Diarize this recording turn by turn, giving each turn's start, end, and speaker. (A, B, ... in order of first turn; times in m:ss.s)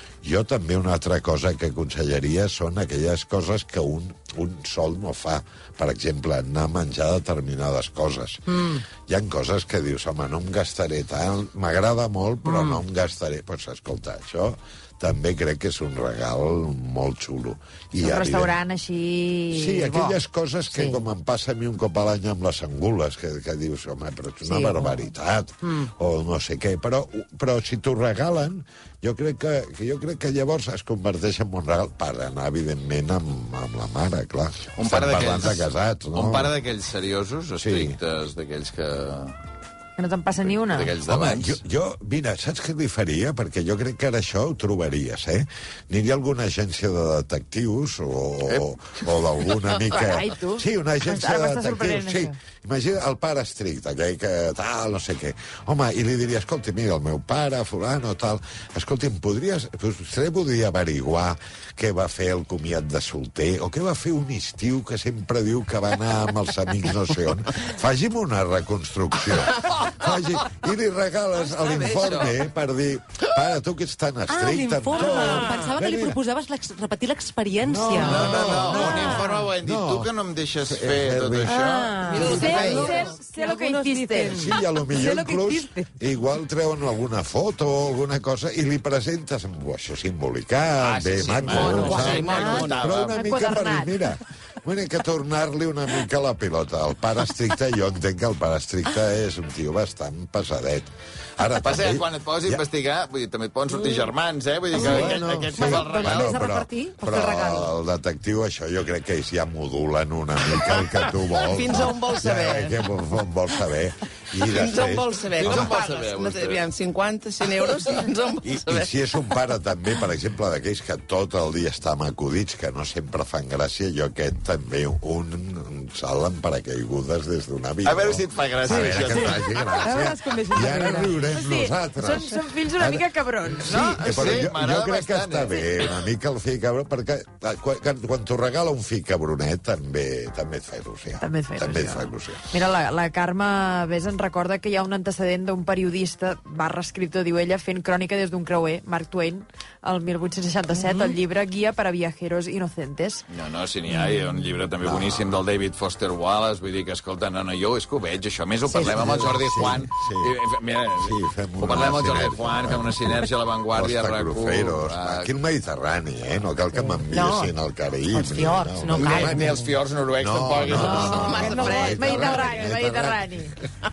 0:00.2-0:08.4 A
0:08.5-0:08.8 B
0:09.0-0:18.6 A
0:12.4-0:12.8 B
0:18.0-0:20.2 C
0:19.5-0:36.5 A
0:20.7-0:21.0 B
0:24.4-0:25.0 B
0:25.6-0:25.9 B
0:34.8-0:39.4 D
0:37.6-0:38.0 A
0:40.0-0:40.9 C
0:40.4-0:41.6 D
0:41.0-1:16.2 A
0:48.5-0:49.7 D
0:49.9-0:52.4 C
1:11.7-1:12.3 D
1:14.3-1:19.5 B
1:17.6-1:21.6 A
1:17.9-1:22.3 D
1:21.4-1:25.9 B
1:22.0-1:23.2 E
1:22.1-1:22.8 A
1:22.2-1:24.5 C
1:24.3-1:42.6 A
1:30.8-1:33.2 D
1:31.1-1:33.1 E
1:32.4-1:32.7 B
1:33.0-1:34.0 C
1:41.6-1:46.4 D
1:44.7-1:55.8 A
1:44.7-1:47.7 B
1:50.7-1:52.8 E
1:54.4-1:56.7 D
1:54.4-1:59.0 E
1:57.4-1:57.8 D
1:58.4-2:22.5 A
2:07.8-2:09.9 D
2:08.7-2:11.2 B
2:11.3-2:14.4 C
2:13.8-2:15.9 D
2:21.2-2:33.2 C
2:30.7-2:31.2 B
2:33.3-2:45.3 D
2:34.8-2:35.4 A
2:38.7-2:40.4 A
2:41.0-2:53.3 A
2:47.1-2:47.5 B
2:48.1-2:49.7 B
2:48.9-2:51.5 D
2:50.7-2:52.5 E
2:50.7-2:51.7 B
2:51.0-2:53.5 C